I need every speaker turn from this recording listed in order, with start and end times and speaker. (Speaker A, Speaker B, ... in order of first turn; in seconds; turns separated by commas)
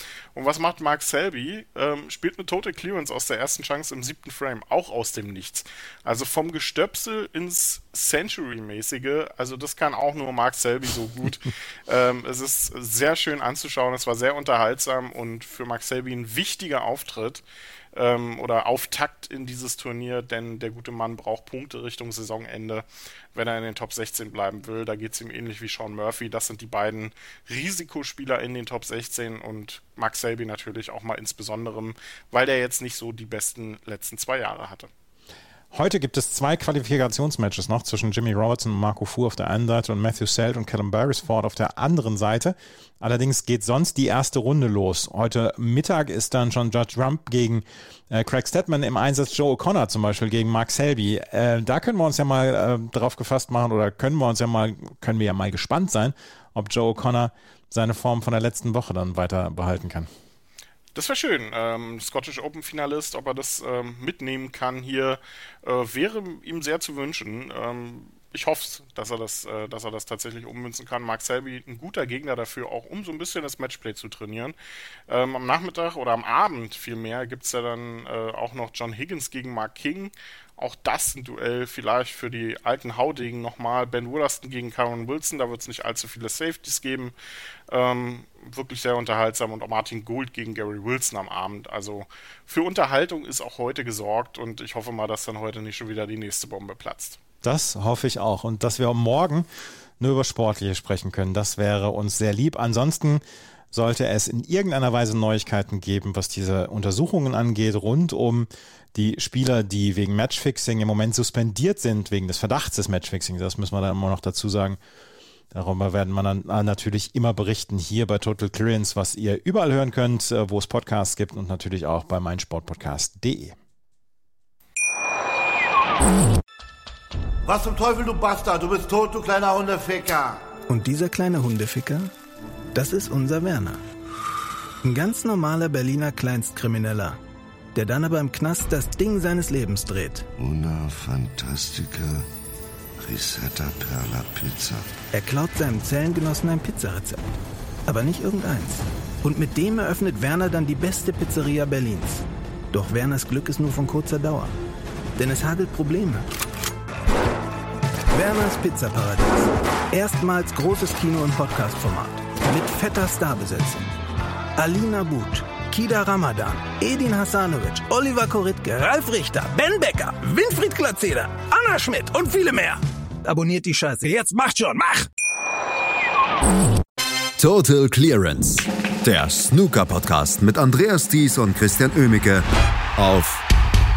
Speaker A: 0.3-17.4, Speaker A: 17.9-34.9, Speaker B: 35.7-60.1, Speaker A: 60.9-74.5, Speaker A: 75.1-87.1, Speaker A: 87.7-97.2, Speaker B: 97.4-99.5, Speaker B: 100.0-114.8, Speaker B: 115.5-123.5, Speaker C: 127.5-130.4, Speaker D: 130.7-132.1, Speaker D: 132.7-133.8, Speaker D: 134.8-137.2, Speaker D: 137.7-140.2, Speaker E: 140.4-142.2, Speaker E: 143.0-144.9, Speaker D: 145.1-147.2, Speaker D: 147.9-154.6, Speaker D: 155.2-156.3, Speaker D: 158.1-163.9, Speaker D: 164.6-175.1, Speaker F: 177.4-182.4, Speaker F: 183.0-183.4